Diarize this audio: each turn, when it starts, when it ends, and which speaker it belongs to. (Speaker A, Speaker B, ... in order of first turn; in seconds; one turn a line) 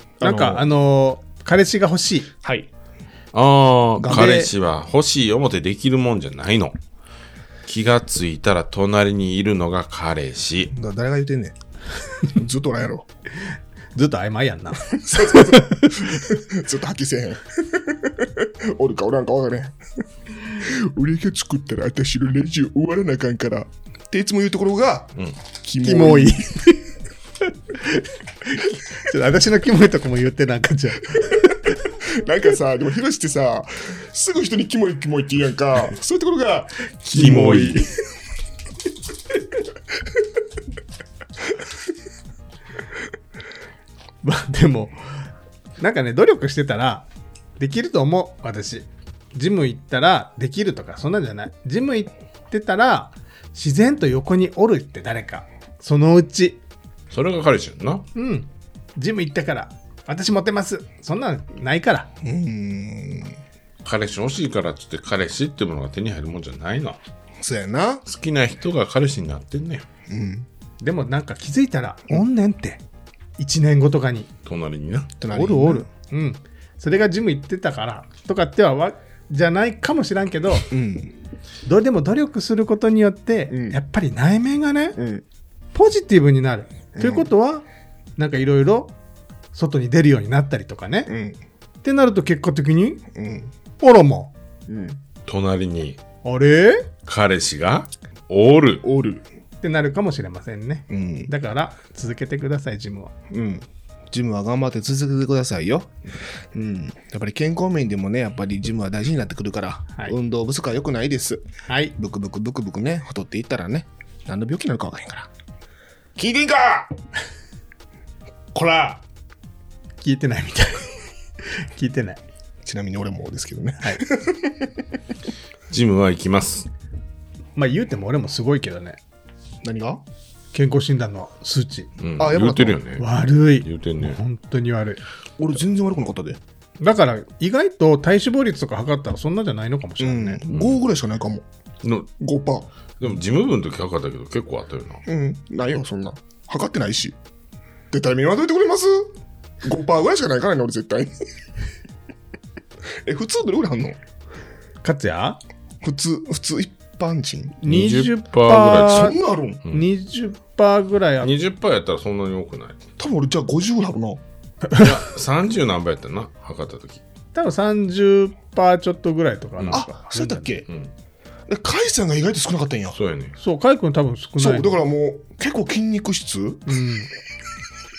Speaker A: 0.2-0.6
Speaker B: 0.2-2.3
Speaker A: 2.4-2.7
Speaker C: 3.3-6.7
Speaker A: 4.0-4.5
Speaker B: 4.1-4.5
Speaker C: 7.7-10.7
Speaker A: 10.7-11.6
Speaker A: 12.3-13.1
Speaker B: 13.9-16.0
Speaker A: 14.9-19.8
Speaker A: 20.4-26.7
Speaker B: 25.8-26.8
Speaker B: 27.8-31.8
Speaker A: 31.2-37.9
Speaker B: 37.1-37.8
Speaker C: 37.2-37.8
Speaker B: 44.2-45.2
Speaker B: 45.8-56.6
Speaker C: 57.1-58.0
Speaker B: 58.1-62.1
Speaker A: 62.2-63.4
Speaker C: 63.8-67.0
Speaker A: 67.4-68.0
Speaker C: 68.0-69.8
Speaker A: 70.1-70.5
Speaker B: 70.8-72.8
Speaker B: 73.4-74.3
Speaker C: 74.4-75.1
Speaker A: 75.2-75.9
Speaker B: 75.3-80.7
Speaker A: 80.7-81.2
Speaker B: 81.6-85.0
Speaker A: 83.5-83.8
Speaker A: 85.0-85.2
Speaker B: 85.7-87.6
Speaker A: 86.9-87.3
Speaker B: 88.2-88.9
Speaker B: 89.5-91.1
Speaker A: 91.1-91.4
Speaker B: 91.8-93.1
Speaker A: 93.1-93.5
Speaker B: 93.8-94.3
Speaker A: 94.7-95.0
Speaker C: 95.2-96.0
Speaker B: 96.2-96.9
Speaker C: 97.0-98.8
Speaker A: 98.8-99.2
Speaker B: 99.6-103.1
Speaker A: 100.9-101.3
Speaker A: 103.3-106.0
Speaker A: 106.5-111.4
Speaker B: 111.7-111.9
Speaker A: 112.0-115.3
Speaker A: 116.2-116.9
Speaker A: 118.5-119.0
Speaker B: 120.0-121.0
Speaker B: 121.6-122.2
Speaker A: 122.6-124.8
Speaker C: 125.7-126.7
Speaker B: 127.5-129.0
Speaker A: 129.6-130.0
Speaker B: 130.5-131.9
Speaker C: 132.0-133.1
Speaker A: 132.2-132.8
Speaker B: 133.0-135.0
Speaker C: 133.6-134.2
Speaker A: 135.4-136.4
Speaker B: 136.8-140.4
Speaker A: 140.0-141.4
Speaker C: 140.5-140.8
Speaker C: 141.8-142.1
Speaker A: 142.2-142.7
Speaker C: 143.0-145.0
Speaker A: 145.1-147.2
Speaker A: 147.9-151.1
Speaker A: 153.0-154.0
Speaker B: 154.8-155.4
Speaker A: 155.8-157.6
Speaker B: 157.6-159.2
Speaker C: 157.6-159.9
Speaker A: 158.8-159.6
Speaker B: 159.7-161.3
Speaker C: 161.2-162.8
Speaker A: 163.0-164.2
Speaker C: 164.7-167.0
Speaker B: 167.3-170.5
Speaker A: 169.7-170.7
Speaker A: 171.5-173.0
Speaker C: 172.9-173.3
Speaker B: 173.4-174.8
Speaker A: 174.4-176.7
Speaker B: 176.7-177.1